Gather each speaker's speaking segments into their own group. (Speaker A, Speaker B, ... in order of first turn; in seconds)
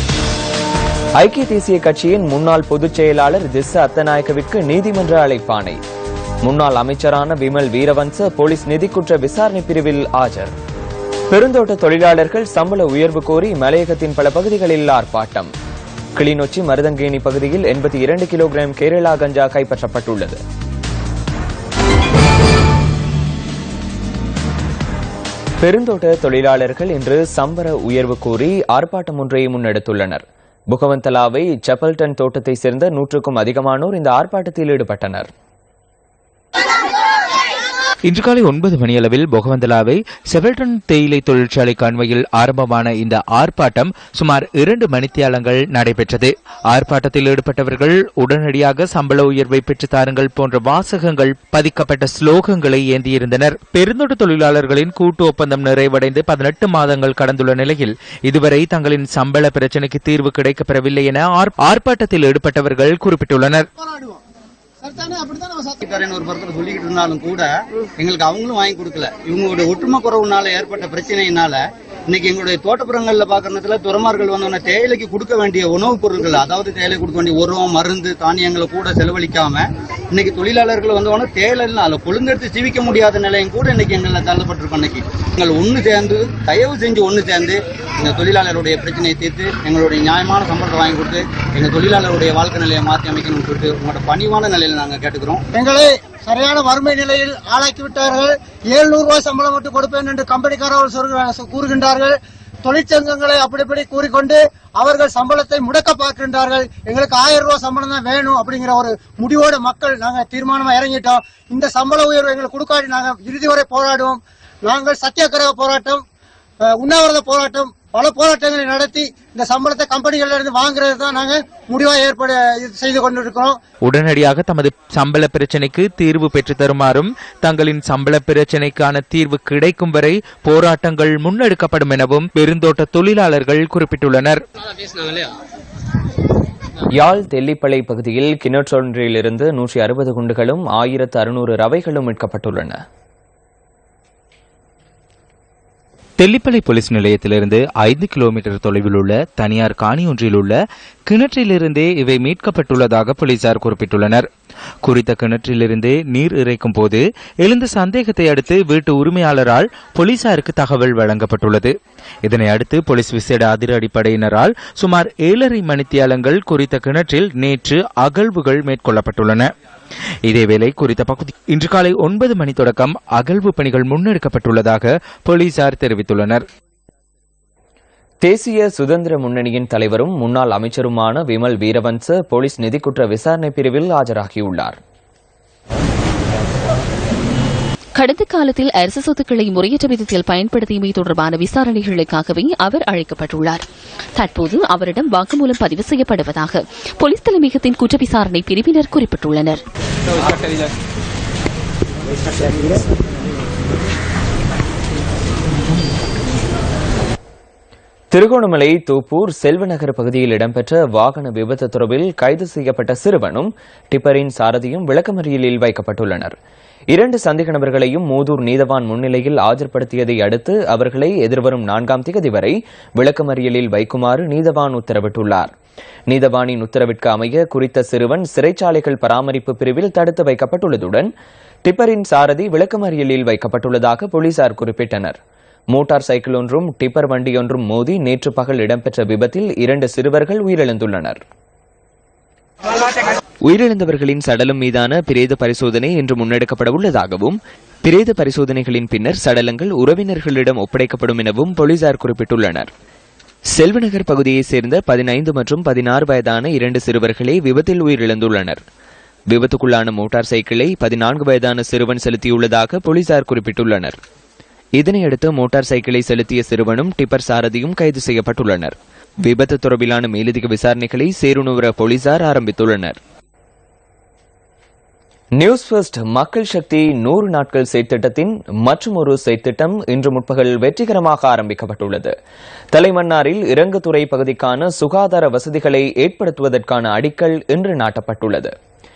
Speaker A: 1.2-5.8, 6.4-10.5, 11.3-15.5, 16.1-20.4, 25.6-35.3, 136.9-142.8, 178.2-184.8, 208.1-216.4, 216.9-225.5, 226.1-231.1, 231.6-235.2, 235.7-241.2, 243.4-252.7, 253.5-258.6, 259.3-264.0, 264.8-273.0, 275.4-282.1, 282.7-288.5
Speaker B: 38.0-63.6, 123.8-134.4, 146.2-150.6, 151.1-154.3, 154.8-169.5, 170.2-176.4
Speaker C: 63.8-64.2, 64.8-65.8, 95.5-116.0, 116.6-123.6
Speaker D: 65.8-95.4
Speaker E: 187.9-193.6, 194.2-199.6